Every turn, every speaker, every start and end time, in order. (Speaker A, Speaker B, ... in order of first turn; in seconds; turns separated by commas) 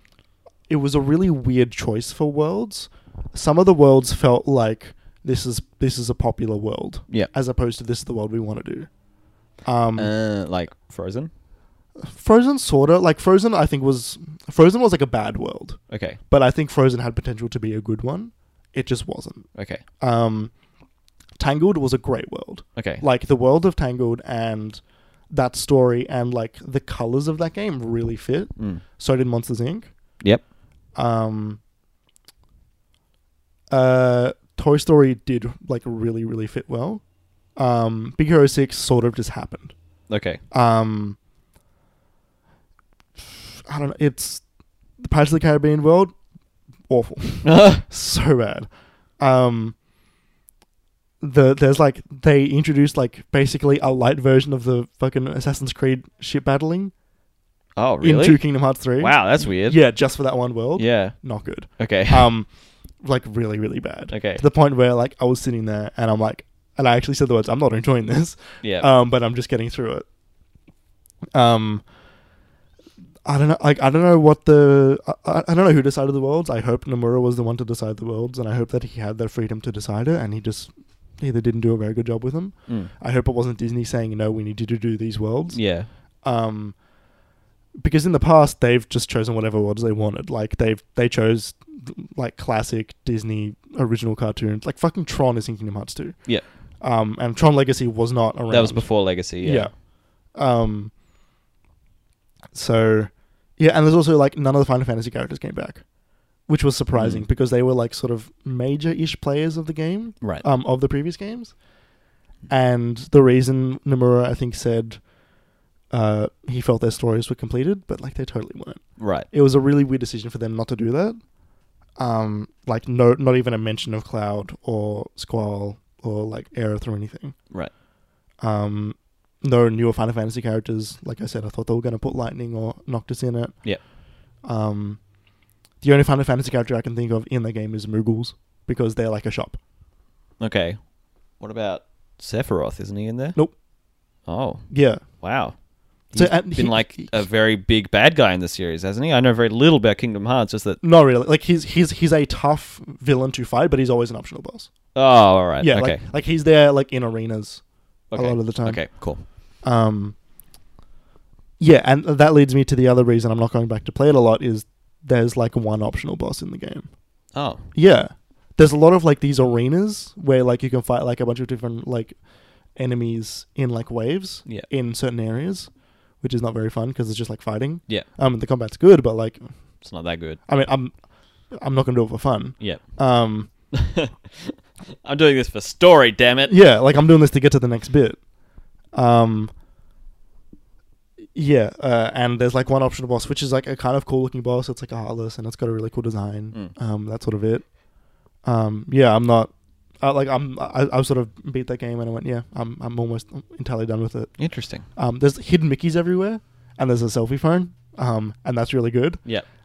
Speaker A: 0.7-8.9, Speaker A: 9.6-10.1, Speaker B: 10.0-11.3, Speaker A: 12.0-20.5, Speaker B: 15.9-16.2, Speaker B: 19.6-19.8, Speaker A: 21.4-29.9, Speaker B: 22.8-23.0, Speaker A: 30.9-31.6, Speaker A: 33.7-37.0, Speaker A: 37.5-39.7, Speaker B: 40.1-40.4, Speaker A: 40.5-41.2, Speaker A: 43.6-44.4, Speaker A: 45.0-46.1, Speaker A: 46.9-49.8, Speaker B: 47.4-47.8, Speaker A: 51.2-56.9, Speaker B: 57.8-58.4, Speaker A: 58.0-62.5, Speaker B: 59.0-59.8, Speaker B: 60.8-61.1, Speaker B: 61.8-62.3, Speaker A: 63.0-70.0, Speaker B: 64.1-64.4, Speaker B: 68.6-68.9, Speaker A: 71.3-71.8, Speaker A: 73.2-85.6, Speaker B: 85.5-85.9, Speaker A: 86.2-86.8, Speaker A: 87.8-96.3, Speaker A: 96.8-100.9, Speaker B: 98.5-99.7, Speaker A: 102.5-105.9, Speaker A: 106.4-111.6, Speaker B: 107.0-107.3, Speaker A: 112.5-115.1, Speaker A: 115.9-121.2, Speaker B: 119.0-119.3, Speaker A: 122.0-127.4, Speaker A: 128.4-133.7, Speaker A: 134.4-135.0, Speaker A: 135.8-139.6, Speaker B: 140.4-140.8, Speaker B: 141.4-143.4, Speaker B: 144.3-145.6, Speaker A: 144.7-145.1, Speaker B: 146.1-150.8, Speaker A: 146.1-147.2, Speaker A: 150.8-154.7, Speaker B: 154.9-156.0, Speaker A: 155.6-160.2, Speaker B: 158.1-159.2, Speaker A: 161.6-166.9, Speaker B: 167.3-167.7, Speaker A: 167.7-172.2, Speaker A: 172.7-179.8, Speaker B: 179.8-180.4, Speaker A: 180.5-183.5, Speaker B: 182.6-183.0, Speaker B: 183.7-186.6, Speaker A: 186.5-188.2, Speaker A: 188.9-189.5, Speaker A: 191.3-197.7, Speaker A: 198.4-209.2, Speaker B: 204.4-204.9